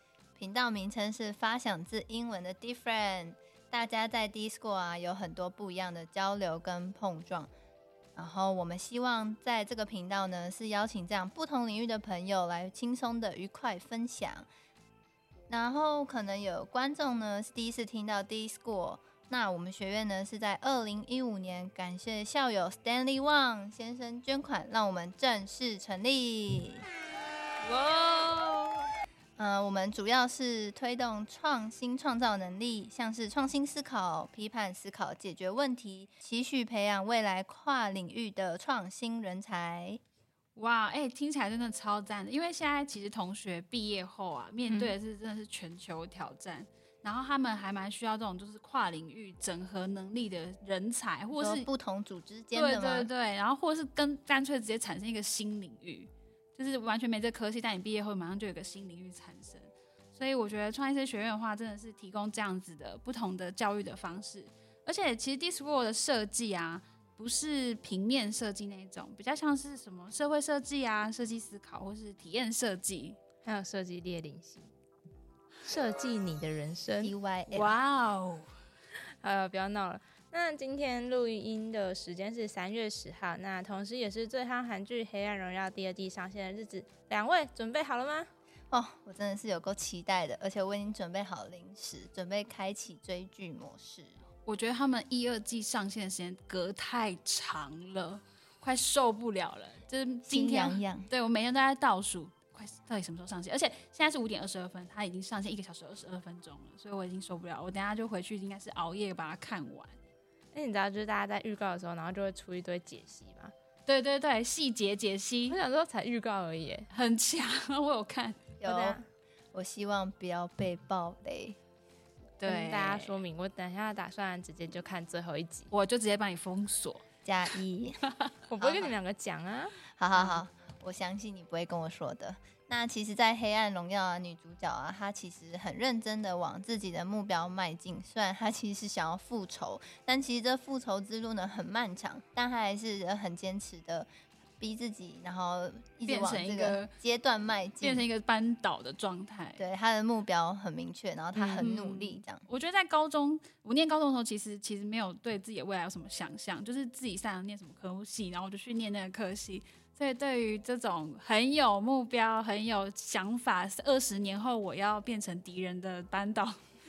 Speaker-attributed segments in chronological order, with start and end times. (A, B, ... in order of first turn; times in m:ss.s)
0:00.4-0:07.5 A
0:08.2-0:14.5 A
0:15.5-0:26.8 A
0:27.6-0:28.9 B
0:29.4-0:40.0 A
0:40.6-0:51.7 B
0:44.7-0:44.9 C
0:51.4-0:53.1 A
0:52.5-1:13.2 B
1:13.4-1:14.7 C
1:15.6-1:17.1 C
1:17.0-1:17.8 A
1:17.5-1:18.5 B
1:19.0-1:28.3 C
1:28.7-1:34.2 A
1:34.4-1:49.9 B
1:40.3-1:41.1 A
1:50.5-1:53.5 C
1:53.9-1:55.6 B
1:55.5-1:56.9 C
1:56.9-1:58.5 B
1:58.6-1:59.0 A
1:58.6-1:59.0 C
1:59.5-2:01.6 A
2:02.4-2:03.2 B
2:02.4-2:05.7 C
2:05.7-2:07.0 B
2:07.2-2:08.0 A
2:08.1-2:08.3 B
2:08.5-2:09.8 C
2:08.6-2:08.9 A
2:10.0-2:28.0 A
2:10.1-2:10.4 B
2:26.0-2:26.9 B
2:27.8-2:29.6 B
2:29.6-2:32.4 A
2:31.3-2:31.7 C
2:31.6-2:46.6 B